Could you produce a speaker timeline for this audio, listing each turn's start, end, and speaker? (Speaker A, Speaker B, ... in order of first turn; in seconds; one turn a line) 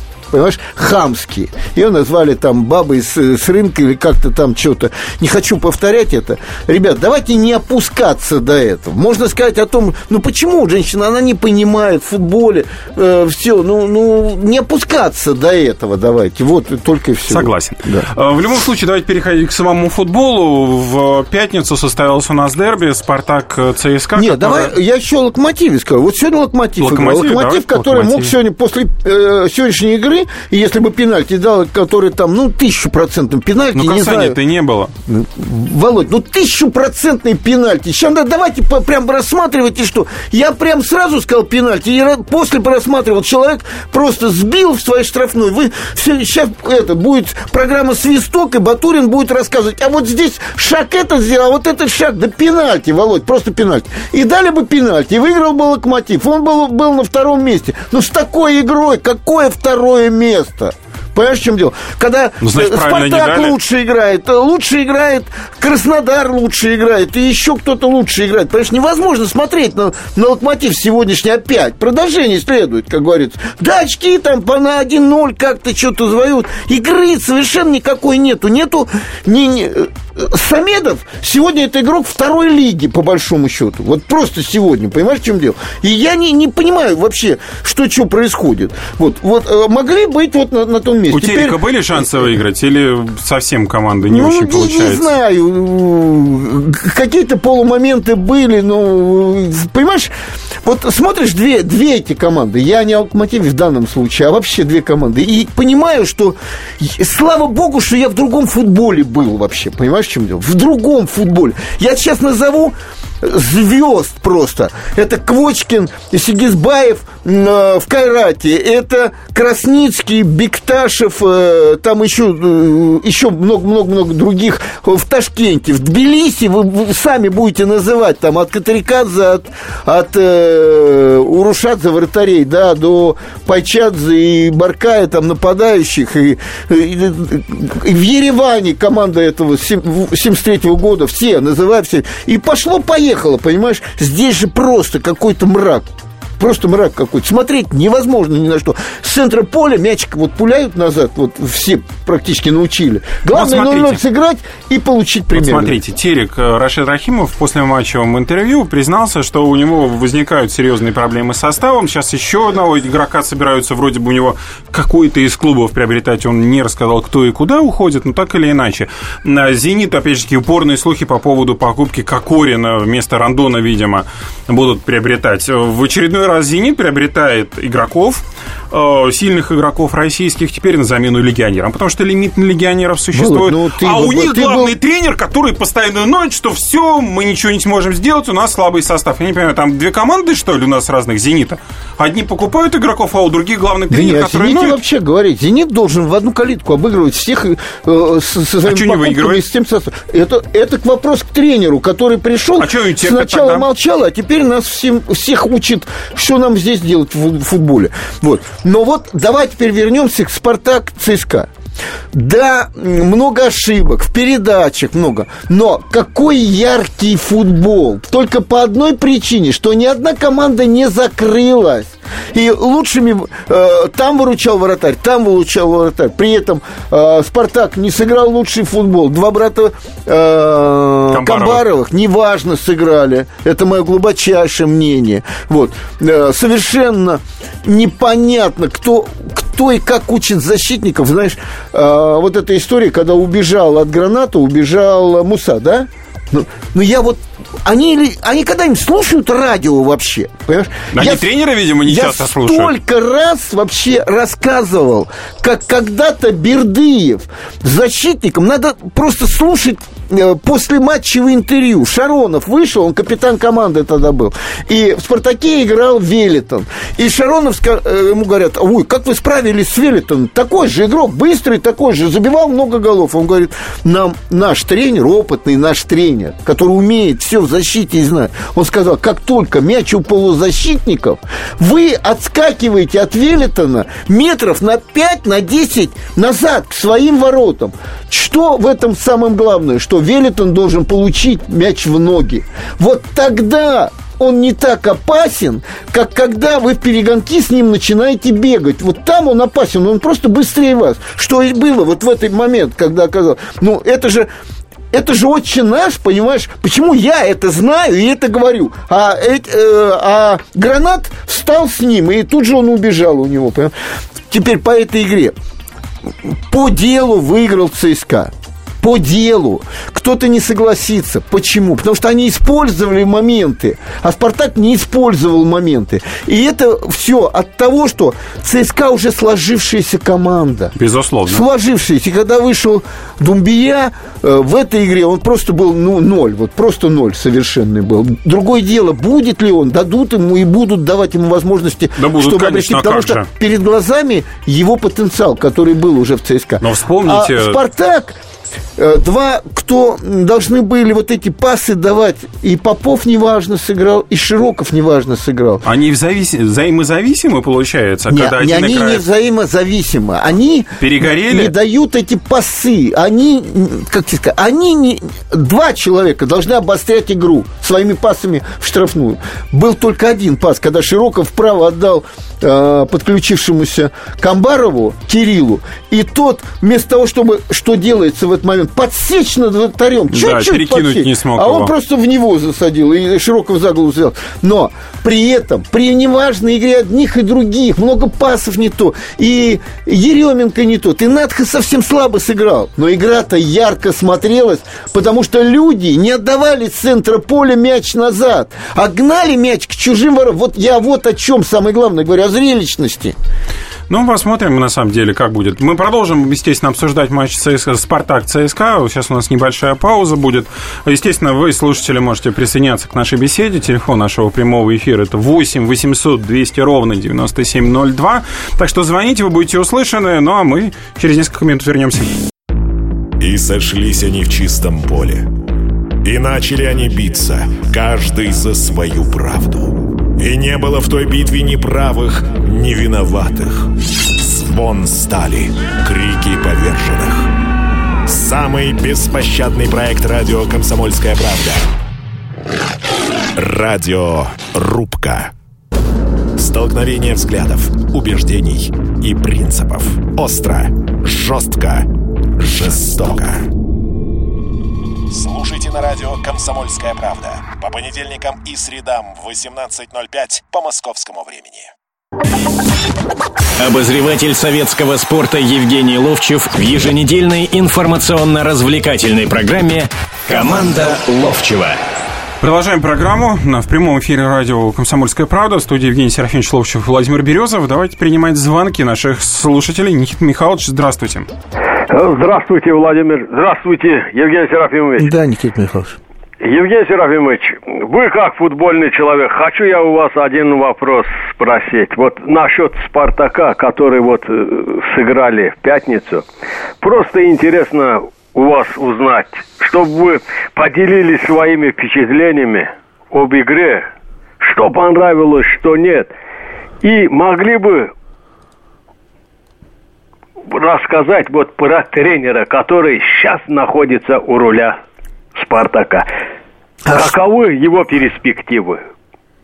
Speaker A: 0.3-18.1
Speaker B: 17.3-24.8
Speaker A: 24.1-34.4
Speaker B: 26.8-28.3
Speaker B: 33.8-34.9
Speaker A: 35.1-92.1
Speaker B: 62.4-63.6
Speaker B: 91.1-95.1
Speaker A: 94.1-100.1
Speaker A: 100.6-155.8
Speaker B: 153.3-154.0
Speaker B: 155.3-194.8
Speaker A: 183.1-184.8
Speaker A: 193.9-211.5
Speaker B: 198.7-199.4
Speaker B: 202.6-203.7
Speaker A: 212.1-251.3
Speaker B: 231.1-231.6
Speaker B: 250.9-252.7
Speaker A: 251.8-304.3
Speaker A: 304.9-313.7
Speaker A: 314.3-315.3
Speaker A: 316.2-330.8
Speaker B: 330.8-331.4
Speaker A: 331.3-348.2
Speaker B: 342.0-343.3
Speaker B: 346.6-347.6
Speaker A: 348.8-355.6
Speaker B: 355.6-359.0
Speaker A: 358.1-403.2
Speaker B: 360.8-361.5
Speaker B: 380.1-381.7
Speaker B: 403.9-422.1
Speaker C: 423.2-425.3
Speaker C: 426.0-437.3
Speaker C: 438.1-441.6
Speaker C: 443.4-445.3
Speaker C: 446.4-453.5
Speaker C: 455.1-461.7
Speaker D: 463.6-471.8
Speaker B: 472.4-481.3
Speaker E: 481.9-485.1
Speaker A: 485.0-486.0
Speaker E: 486.4-496.2
Speaker E: 496.8-503.9
Speaker E: 504.4-506.1
Speaker E: 506.8-507.9
Speaker E: 510.5-514.8
Speaker E: 515.4-516.1
Speaker A: 516.9-517.1
Speaker E: 516.9-518.8